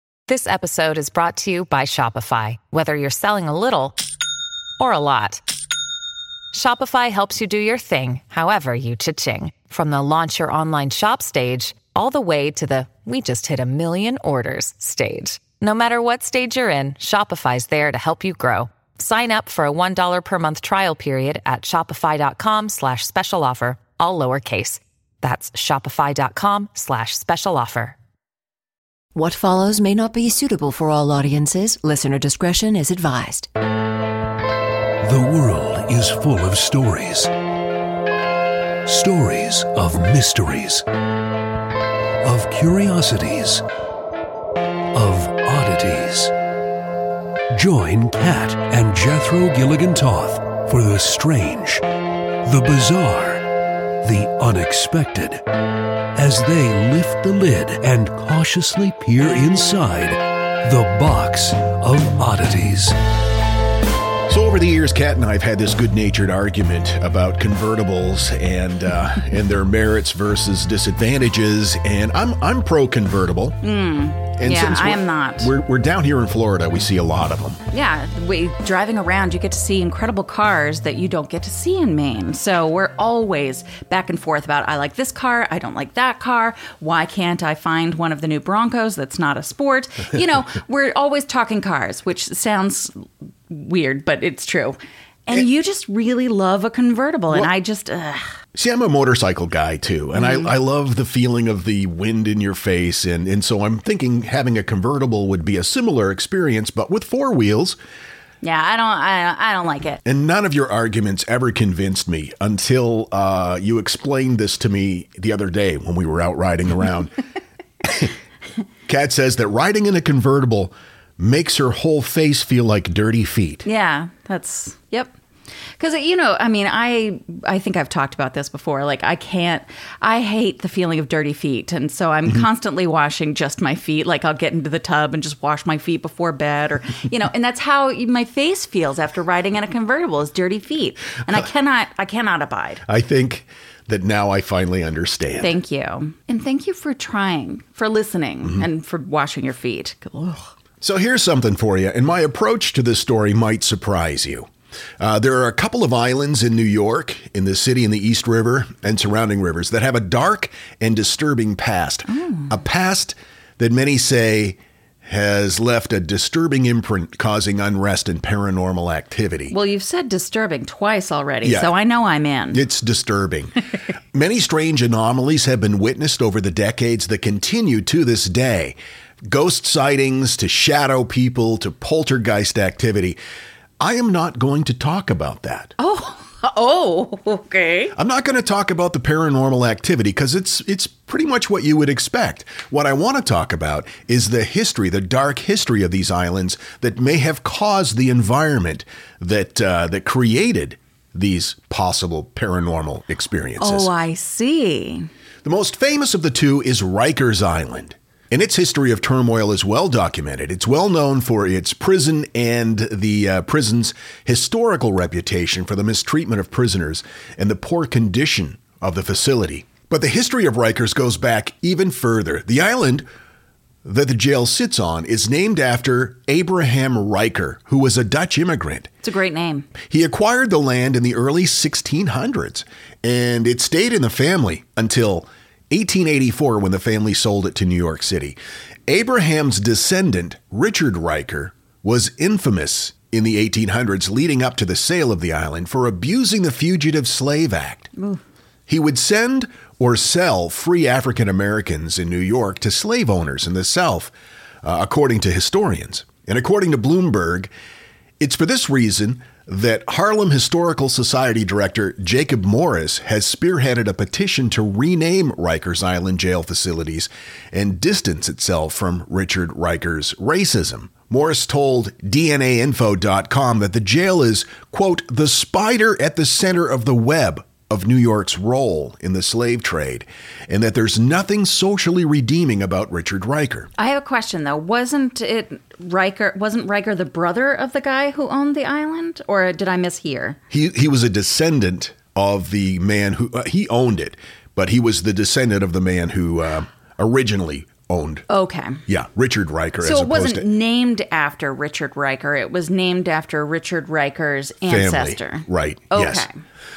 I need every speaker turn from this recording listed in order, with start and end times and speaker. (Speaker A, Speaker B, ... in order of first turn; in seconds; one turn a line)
Speaker A: 0.3-4.0
Speaker A: 4.8-5.4
Speaker A: 6.5-28.0
Speaker B: 29.1-33.5
Speaker C: 35.0-37.3
Speaker C: 38.9-40.8
Speaker C: 42.2-43.6
Speaker C: 44.9-46.3
Speaker C: 47.5-51.8
Speaker C: 52.4-53.4
Speaker C: 54.0-55.4
Speaker C: 56.1-62.9
Speaker D: 64.3-73.6
Speaker E: 73.6-75.5
Speaker D: 74.3-77.6
Speaker E: 77.7-98.3
Speaker D: 98.5-107.8
Speaker E: 100.1-100.5
Speaker E: 108.4-110.0
Speaker D: 110.0-117.2
Speaker D: 117.8-118.1
Speaker D: 118.9-123.6
Speaker E: 123.6-125.1
Speaker E: 125.8-142.8
Speaker D: 142.8-145.6
Speaker E: 145.4-150.5
Speaker D: 150.8-169.5
Speaker E: 162.1-162.5
Speaker E: 169.5-172.6
Speaker D: 171.4-171.7
Speaker D: 172.5-173.5
Speaker D: 174.1-183.2
Speaker D: 183.8-185.7
Speaker E: 185.8-187.9
Speaker D: 187.9-203.9
Speaker E: 203.6-205.1
Speaker D: 205.4-223.1
Speaker D: 223.8-228.9
Speaker E: 229.0-229.7
Speaker D: 229.9-247.9
Speaker D: 248.7-257.5
Speaker D: 258.2-283.7
Speaker E: 283.8-290.4
Speaker D: 290.5-298.3
Speaker E: 298.3-298.8
Speaker D: 298.9-300.4
Speaker E: 299.8-306.3
Speaker D: 304.6-306.3